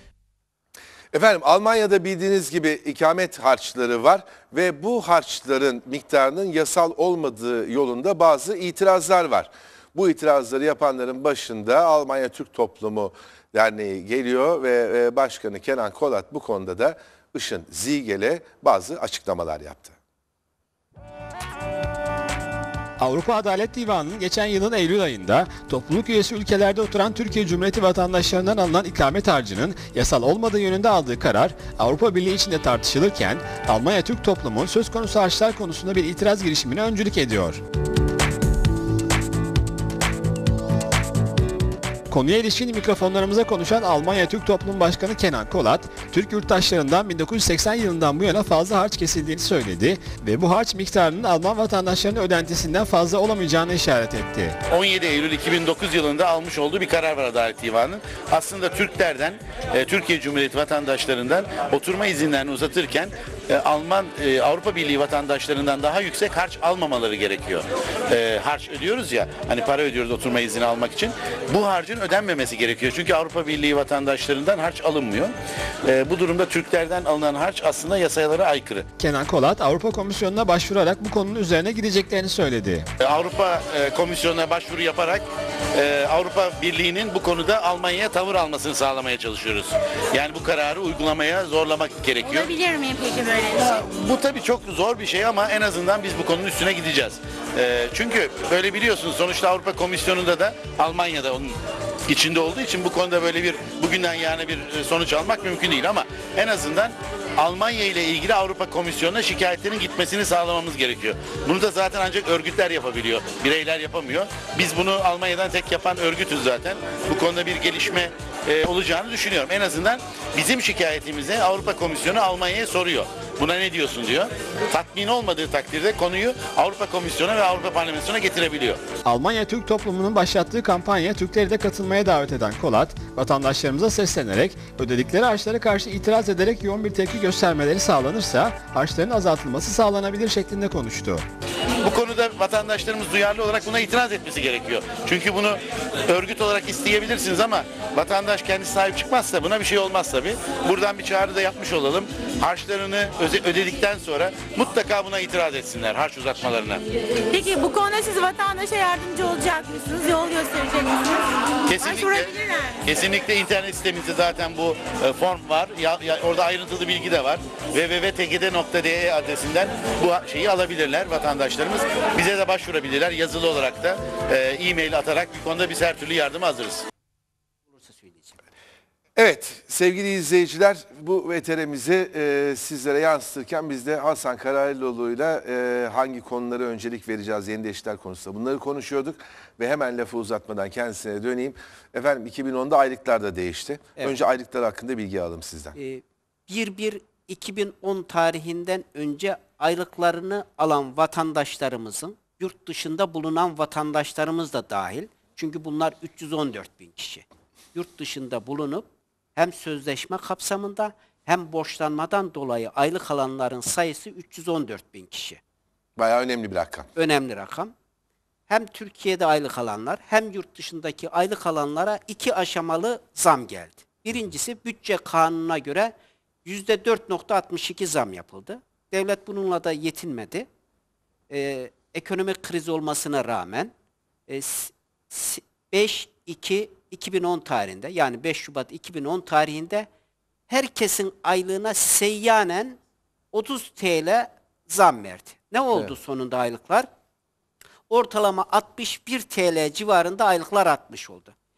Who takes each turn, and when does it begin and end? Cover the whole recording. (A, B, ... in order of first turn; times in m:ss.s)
0:01.1-0:20.0 A
0:23.0-0:37.6 B
0:42.1-0:54.6 B
0:54.7-1:15.3 C
1:15.9-1:18.8 C
1:19.0-1:22.8 B
1:23.0-1:25.2 C
1:25.8-1:32.6 C
1:32.4-1:33.5 D
1:33.5-1:41.6 C
1:42.1-2:08.8 C
2:09.0-2:21.2 B
2:21.8-2:36.8 C
2:37.3-2:41.2 D
2:41.7-2:56.8 C
2:41.8-2:42.8 D
2:57.7-2:58.4 E
2:59.2-3:15.8 A
3:15.8-3:35.4 E
3:36.0-3:36.9 A
3:37.0-3:37.7 E
3:38.5-3:45.9 E
3:46.4-3:50.5 E
3:51.3-3:53.7 E
3:54.3-3:59.9 E
4:00.5-4:02.8 E
4:03.3-4:06.9 E
4:07.9-4:11.3 E